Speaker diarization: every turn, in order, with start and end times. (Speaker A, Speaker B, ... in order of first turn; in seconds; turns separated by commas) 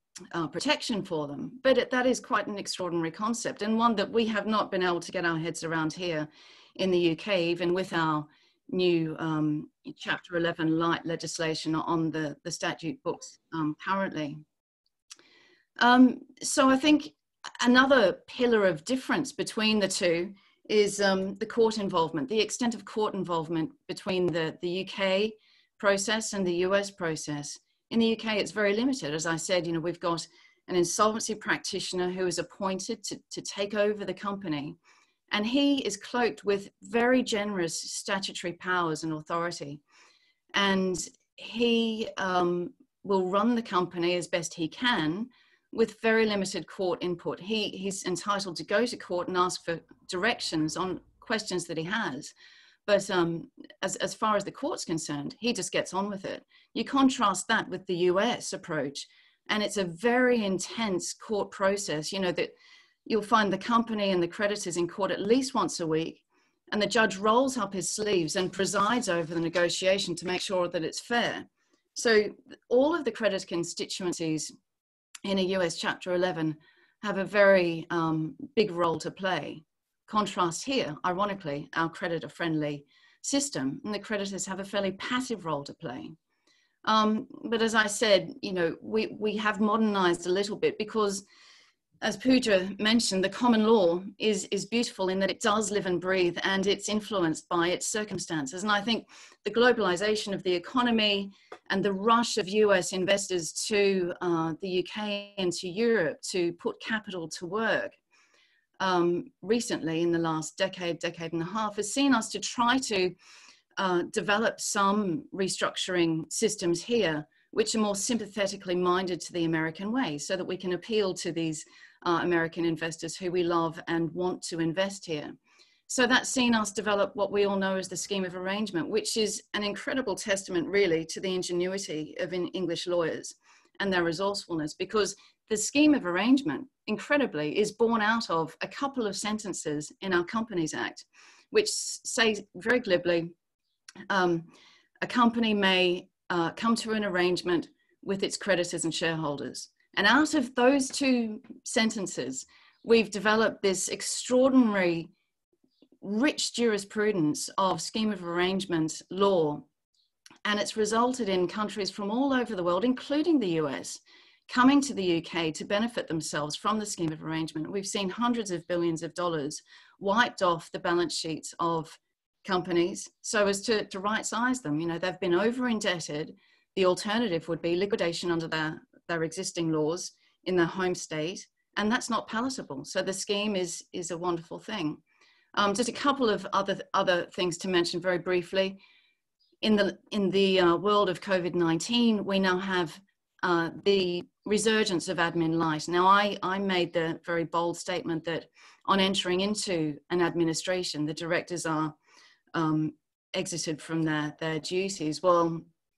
Speaker A: 0.3-14.4, Speaker A: 15.8-34.8, Speaker A: 35.3-39.8, Speaker A: 40.5-52.3, Speaker A: 52.9-62.5, Speaker A: 63.0-74.5, Speaker A: 75.2-86.2, Speaker A: 86.8-91.2, Speaker A: 92.0-108.0, Speaker A: 108.8-113.2, Speaker A: 113.8-125.4, Speaker A: 125.9-143.3, Speaker A: 144.1-155.1, Speaker A: 156.0-159.7, Speaker A: 160.4-185.0, Speaker A: 185.5-188.8, Speaker A: 189.6-201.9, Speaker A: 202.5-205.7